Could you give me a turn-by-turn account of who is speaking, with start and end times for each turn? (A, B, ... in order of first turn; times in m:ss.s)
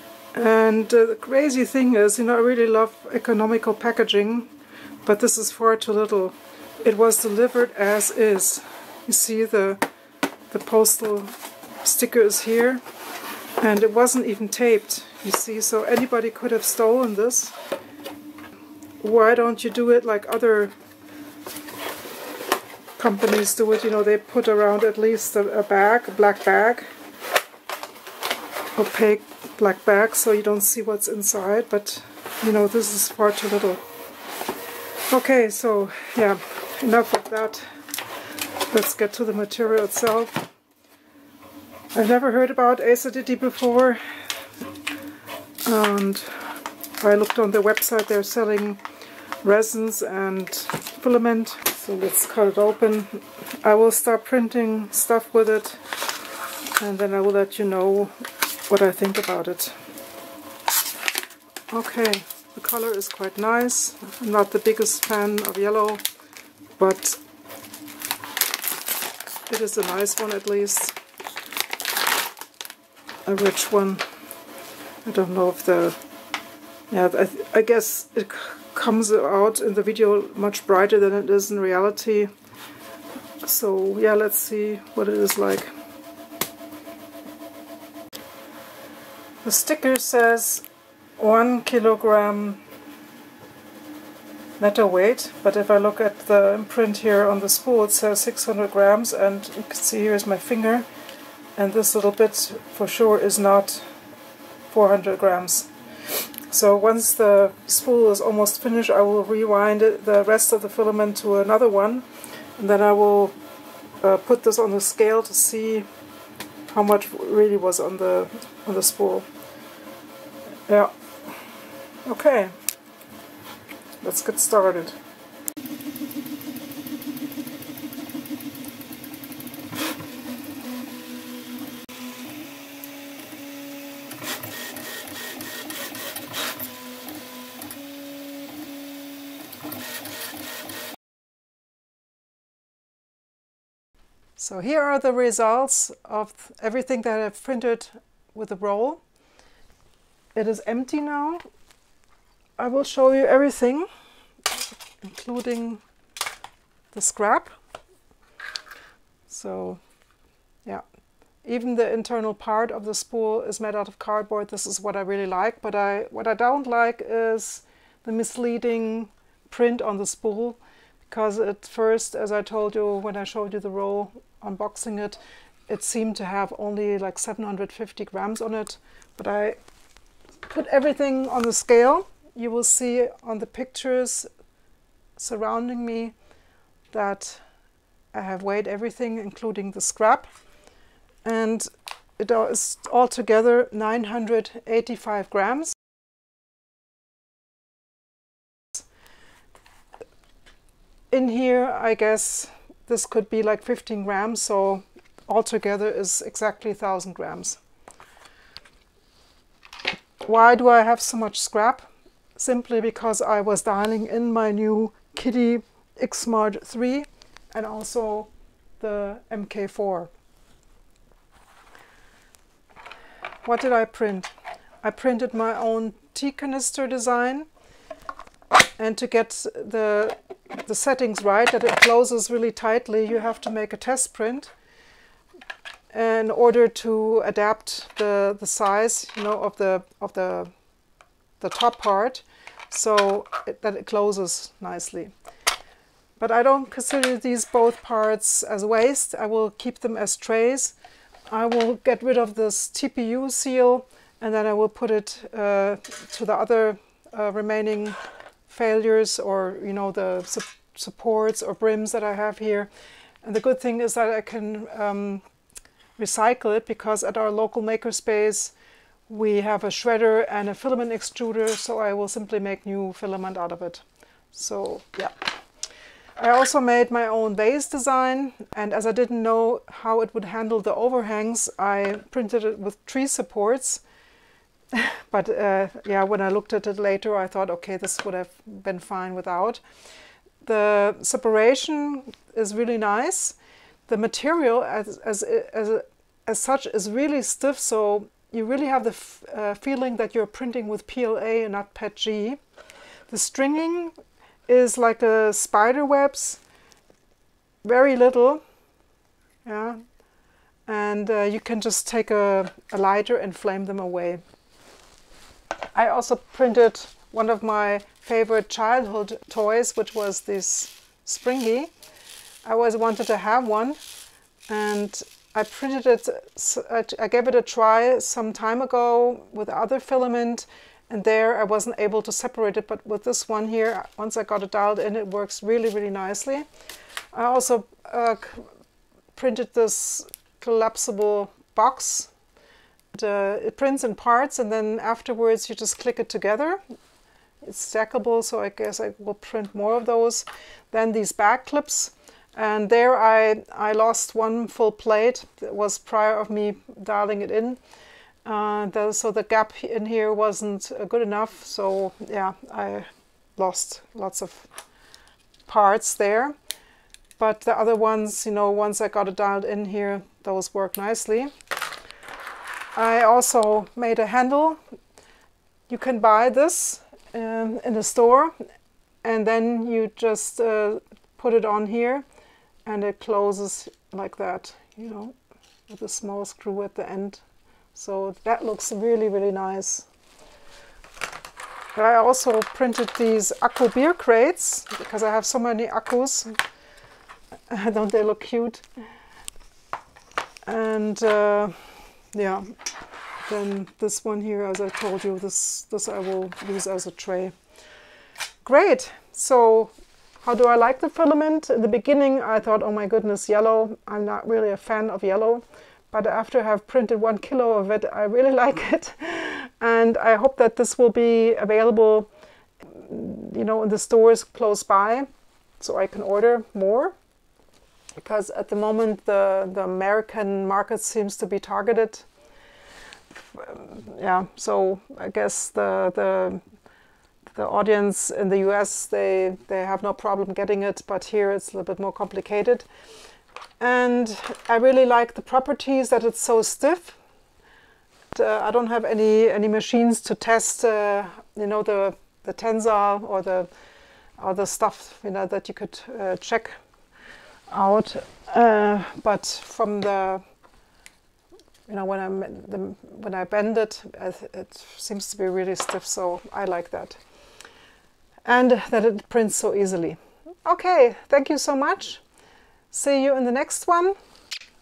0:00.3-0:04.5 A
0:05.0-0:09.8 A
0:10.5-0:12.8 A
0:13.6-0:17.6 A
0:19.0-0:20.7 A
0:23.0-0:26.9 A
0:28.8-0:33.8 A
0:35.1-0:37.7 A
0:38.7-0:40.5 A
0:41.9-0:44.0 A
0:45.6-0:48.8 A
0:49.4-0:55.8 A
0:56.8-0:58.1 A
0:58.7-0:59.7 A
1:01.7-1:06.0 A
1:06.8-1:07.2 A
1:09.5-1:11.0 A
1:13.2-1:14.0 A
1:15.0-1:16.0 A
1:16.9-1:22.3 A
1:23.4-1:25.7 A
1:29.4-1:30.6 A
1:31.2-1:32.6 A
1:34.6-1:40.9 A
1:41.6-1:43.9 A
1:44.7-1:45.7 A
1:46.5-1:52.0 A
1:52.6-1:53.3 A
1:54.0-1:55.9 A
1:56.7-1:59.3 A
2:00.7-2:00.9 A
2:02.0-2:02.5 A
2:04.0-2:05.0 A
2:24.4-2:29.0 A
2:30.3-2:31.4 A
2:32.6-2:33.8 A
2:35.0-2:35.8 A
2:36.9-2:37.5 A
2:39.3-2:39.8 A
2:41.4-2:59.6 A
3:00.4-3:04.3 A
3:05.2-3:06.1 A
3:06.9-3:07.4 A
3:08.1-3:10.3 A
3:11.2-3:15.8 A
3:21.1-3:27.6 A
3:30.2-3:40.1 A
3:43.4-3:44.3 A
3:44.8-3:47.5 A
3:48.8-3:54.5 A
3:55.9-4:00.5 A
4:01.4-4:05.1 A
4:06.2-4:10.7 A
4:11.3-4:18.0 A
4:18.5-4:22.7 A
4:23.2-4:25.2 A
4:26.0-4:28.5 A
4:29.1-4:35.1 A
4:36.2-4:43.8 A
4:44.7-4:49.6 A
4:50.4-5:02.4 A
5:03.1-5:03.9 A
5:04.5-5:06.4 A
5:07.6-5:08.4 A
5:09.4-5:09.8 A
5:10.7-5:14.2 A
5:15.7-5:21.7 A
5:22.4-5:23.8 A
5:24.5-5:36.4 A
5:37.1-5:38.4 A
5:39.1-5:42.1 A
5:42.9-5:46.6 A
5:47.4-5:57.6 A
5:58.2-6:04.5 A
6:05.5-6:06.4 A
6:07.2-6:11.3 A
6:12.7-6:14.6 A
6:15.7-6:18.3 A
6:19.0-6:22.0 A
6:22.6-6:25.1 A
6:25.7-6:27.2 A
6:27.7-6:29.9 A
6:31.7-6:36.4 A
6:37.5-6:38.6 A
6:40.4-6:42.4 A
6:43.2-6:47.3 A
6:48.4-7:02.1 A
7:02.7-7:05.1 A
7:05.6-7:06.9 A
7:08.0-7:12.0 A
7:13.3-7:16.4 A
7:17.3-7:22.6 A
7:23.6-7:27.0 A
7:28.1-7:33.5 A
7:34.2-7:36.6 A
7:37.5-7:40.2 A
7:41.7-7:47.0 A
7:48.2-7:52.0 A
7:52.7-7:54.0 A